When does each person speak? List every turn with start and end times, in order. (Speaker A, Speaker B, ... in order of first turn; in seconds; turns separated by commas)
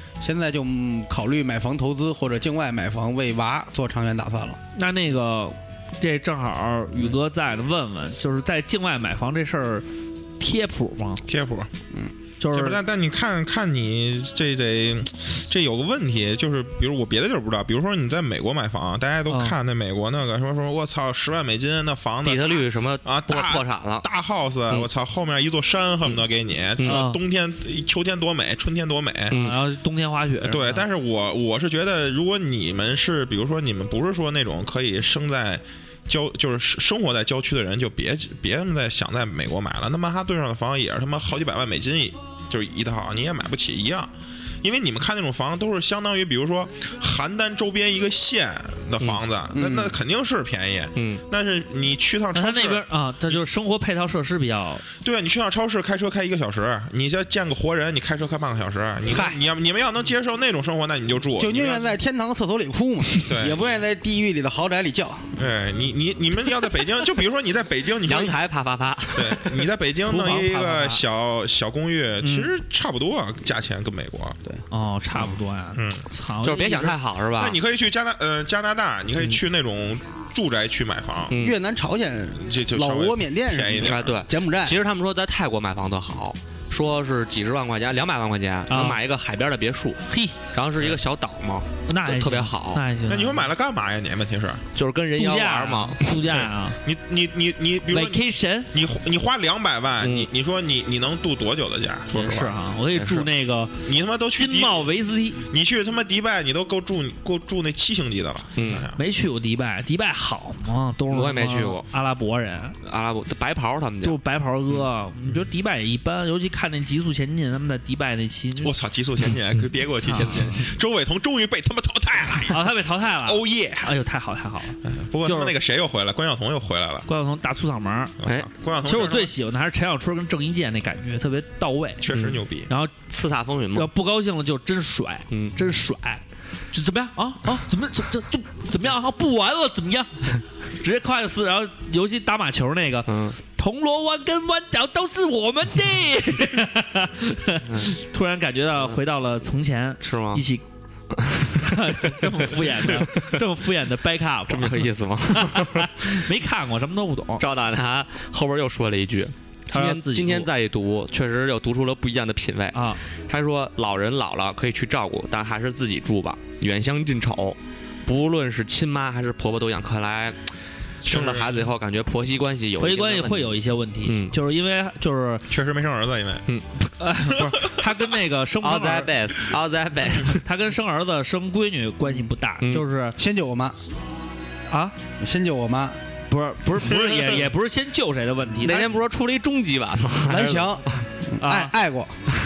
Speaker A: 0.2-4.6, Speaker B: 4.7-9.8, Speaker B: 10.4-11.2, Speaker C: 11.2-11.7, Speaker B: 12.4-12.8, Speaker C: 12.5-29.5, Speaker B: 19.3-19.6, Speaker D: 22.2-24.1, Speaker D: 26.8-27.0, Speaker B: 26.8-27.2, Speaker D: 29.3-29.6, Speaker B: 29.3-30.9, Speaker C: 30.4-44.1, Speaker C: 44.6-52.8, Speaker A: 49.5-49.9, Speaker D: 51.0-51.2, Speaker B: 52.3-54.8, Speaker C: 55.0-61.8, Speaker A: 59.1-59.4, Speaker A: 61.4-65.4, Speaker C: 63.2-63.6, Speaker C: 65.3-68.4, Speaker D: 68.0-69.7, Speaker C: 69.1-74.4, Speaker B: 70.0-71.0, Speaker B: 72.2-72.5, Speaker B: 74.7-77.0, Speaker C: 75.7-76.0, Speaker D: 76.4-77.6, Speaker C: 77.3-81.4, Speaker D: 81.3-81.6, Speaker A: 81.4-84.8, Speaker C: 82.4-84.2, Speaker D: 83.8-92.8, Speaker B: 88.7-89.0, Speaker B: 90.1-90.4, Speaker B: 91.9-93.5, Speaker C: 93.1-94.6, Speaker D: 94.7-96.2, Speaker B: 95.2-96.8, Speaker C: 96.3-102.6, Speaker B: 97.9-98.7, Speaker D: 100.0-100.3, Speaker B: 102.1-105.4, Speaker D: 102.9-103.3, Speaker C: 103.8-104.9, Speaker C: 105.5-109.0, Speaker D: 108.5-108.8, Speaker B: 109.0-112.8, Speaker D: 111.1-111.9, Speaker D: 112.8-114.2, Speaker B: 114.0-118.8, Speaker C: 118.6-124.0, Speaker B: 120.0-120.6, Speaker B: 122.5-125.5, Speaker C: 124.8-127.1, Speaker B: 127.1-128.1, Speaker C: 128.2-129.3, Speaker B: 128.8-132.9, Speaker C: 132.0-132.7, Speaker D: 133.1-133.9, Speaker B: 133.7-150.6, Speaker D: 135.3-135.6, Speaker D: 143.1-143.3, Speaker D: 147.7-147.9, Speaker D: 150.0-150.4, Speaker D: 151.1-153.4, Speaker B: 151.5-157.4, Speaker D: 154.5-156.1, Speaker D: 157.4-170.4, Speaker B: 159.7-160.5, Speaker B: 162.7-163.0, Speaker D: 171.0-174.3, Speaker C: 171.1-171.7, Speaker B: 172.8-175.5, Speaker C: 175.5-176.5, Speaker B: 176.8-179.1, Speaker C: 177.2-177.8, Speaker D: 178.6-180.4, Speaker B: 180.4-183.2, Speaker D: 182.0-182.8, Speaker A: 183.2-183.8, Speaker B: 184.7-184.9, Speaker A: 185.2-186.0, Speaker B: 186.3-188.9, Speaker D: 188.6-191.0, Speaker A: 190.3-192.2, Speaker B: 191.4-191.7